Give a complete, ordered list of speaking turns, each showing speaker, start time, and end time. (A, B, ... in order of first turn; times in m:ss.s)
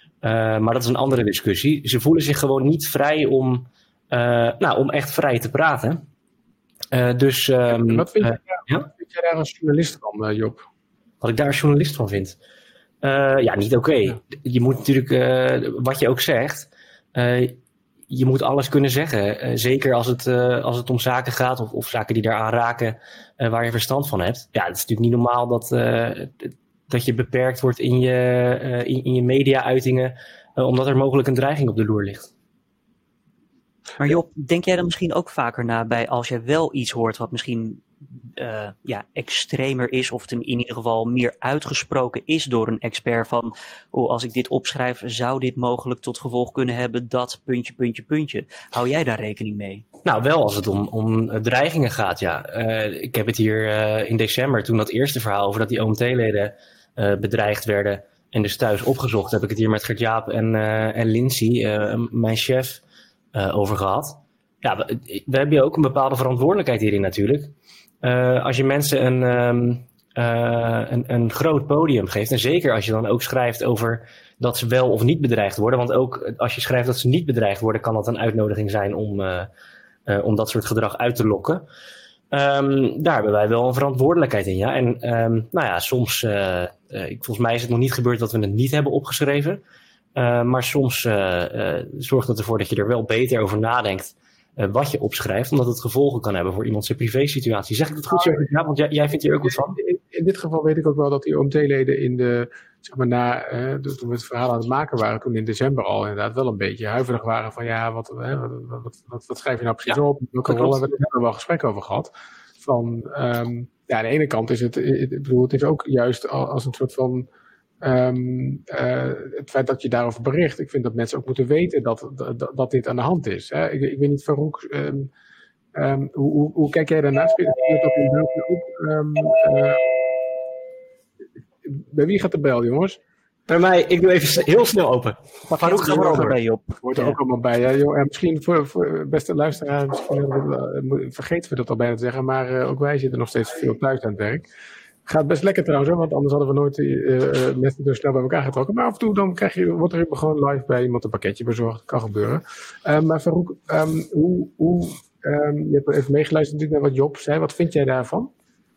0:00.2-0:06.0 A
0:06.9-0:08.9 A
0:07.7-0:10.7 B
0:11.2-0:12.4 A
0:13.0-0:32.3 A
0:34.0-0:49.8 C
0:50.0-1:02.8 A
1:03.3-1:19.5 A
1:20.1-1:21.7 A
1:22.3-1:29.6 A
1:30.1-1:39.8 A
1:38.1-1:38.4 B
1:39.7-1:57.3 B
1:57.8-2:05.1 B
2:05.7-2:09.8 B
2:11.6-2:13.0 B
2:13.5-2:16.3 A
2:15.5-2:17.2 C
2:15.8-2:24.4 B
2:25.0-2:38.3 B